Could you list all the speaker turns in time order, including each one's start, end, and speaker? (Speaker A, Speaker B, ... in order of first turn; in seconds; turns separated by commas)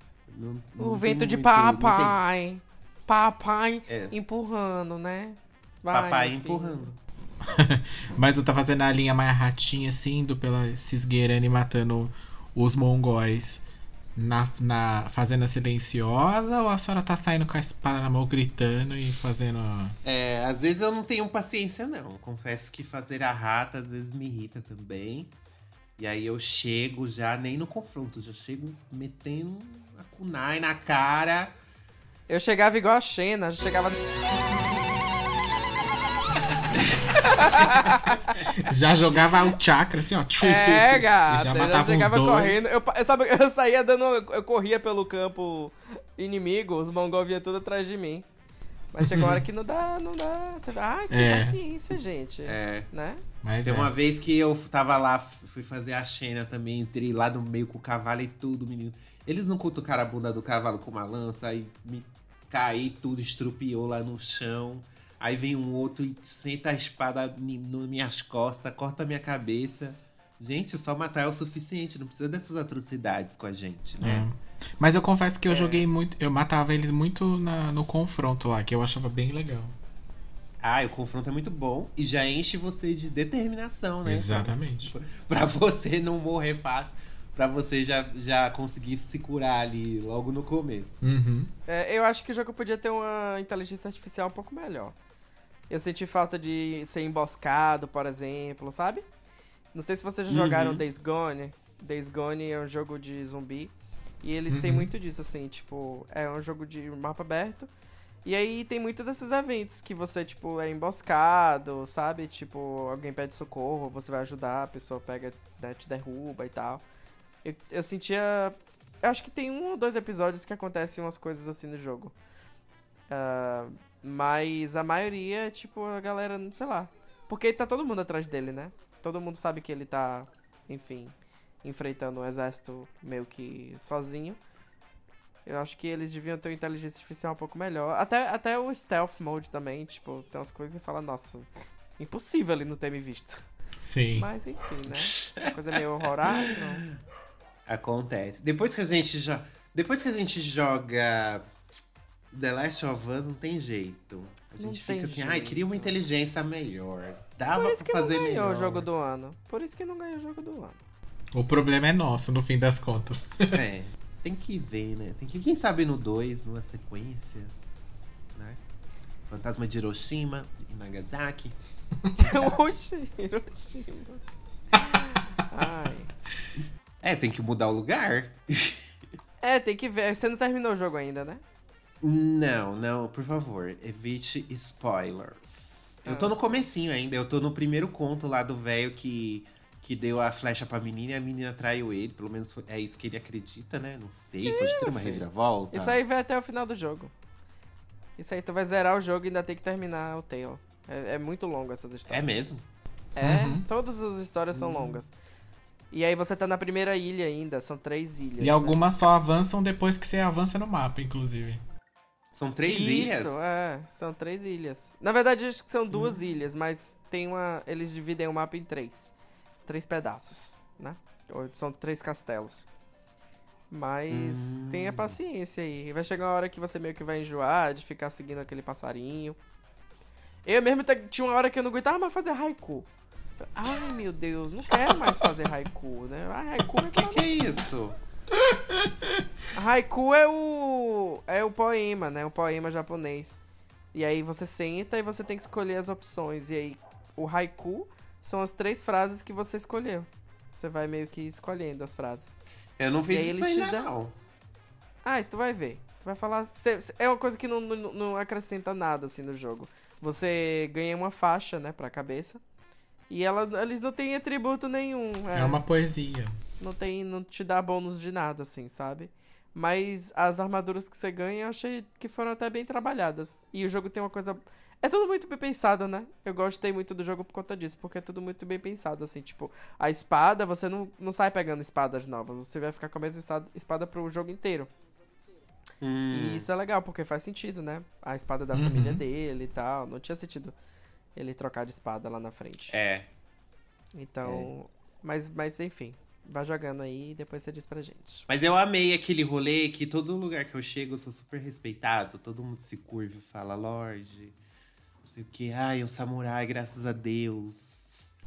Speaker A: 0.3-2.2, Speaker B: 0.8-6.8, Speaker A: 3.9-4.2, Speaker A: 5.9-7.0, Speaker C: 7.4-13.6, Speaker C: 14.2-20.0, Speaker A: 20.0-25.3, Speaker A: 26.0-31.5, Speaker B: 32.3-34.0, Speaker B: 37.2-38.4, Speaker C: 38.5-42.6, Speaker B: 40.4-48.2, Speaker B: 48.9-53.2, Speaker C: 49.0-49.4, Speaker C: 51.1-51.6, Speaker A: 52.4-52.9, Speaker C: 53.4-53.9, Speaker A: 53.6-74.2, Speaker C: 74.0-79.8, Speaker B: 75.5-75.8, Speaker A: 80.6-91.0, Speaker C: 84.0-84.9, Speaker C: 91.0-91.5, Speaker B: 91.7-95.0, Speaker B: 95.7-99.0, Speaker B: 99.7-103.7, Speaker A: 100.3-100.8, Speaker B: 104.2-107.7, Speaker C: 104.5-104.9, Speaker B: 108.2-116.8, Speaker B: 117.4-122.1, Speaker B: 123.1-134.4, Speaker B: 135.4-143.4, Speaker C: 143.8-144.3, Speaker B: 144.2-146.8, Speaker A: 145.1-145.5, Speaker A: 146.3-146.6, Speaker A: 147.7-151.4, Speaker A: 152.3-158.8, Speaker B: 154.6-156.0, Speaker B: 157.5-160.8, Speaker C: 161.3-163.6, Speaker A: 163.5-167.5, Speaker A: 168.3-168.6, Speaker A: 169.2-171.6, Speaker B: 172.2-174.2, Speaker B: 174.8-176.1, Speaker A: 177.0-178.8, Speaker B: 179.4-181.4, Speaker A: 182.0-196.0, Speaker B: 186.1-186.3, Speaker B: 194.4-197.1, Speaker B: 198.2-202.2, Speaker A: 202.1-202.6, Speaker B: 203.2-205.1, Speaker C: 203.2-203.6, Speaker A: 204.6-204.9, Speaker B: 205.9-208.8, Speaker C: 208.4-211.6, Speaker A: 212.3-213.4, Speaker B: 212.7-219.1, Speaker B: 219.7-222.7, Speaker B: 223.7-229.4, Speaker A: 224.1-225.2, Speaker B: 230.4-232.9, Speaker B: 233.5-237.2, Speaker A: 236.9-238.0, Speaker C: 238.5-238.9, Speaker B: 239.5-243.4, Speaker B: 243.9-252.4, Speaker A: 252.8-254.1, Speaker B: 253.1-253.9, Speaker B: 255.0-262.4, Speaker B: 263.1-265.6, Speaker C: 265.3-266.4, Speaker B: 266.6-284.7, Speaker A: 285.8-286.4, Speaker B: 286.1-290.5, Speaker C: 288.5-289.0, Speaker B: 291.1-292.7, Speaker A: 292.7-293.1, Speaker B: 293.9-298.2, Speaker A: 294.2-294.5, Speaker A: 298.3-304.4, Speaker A: 305.0-308.1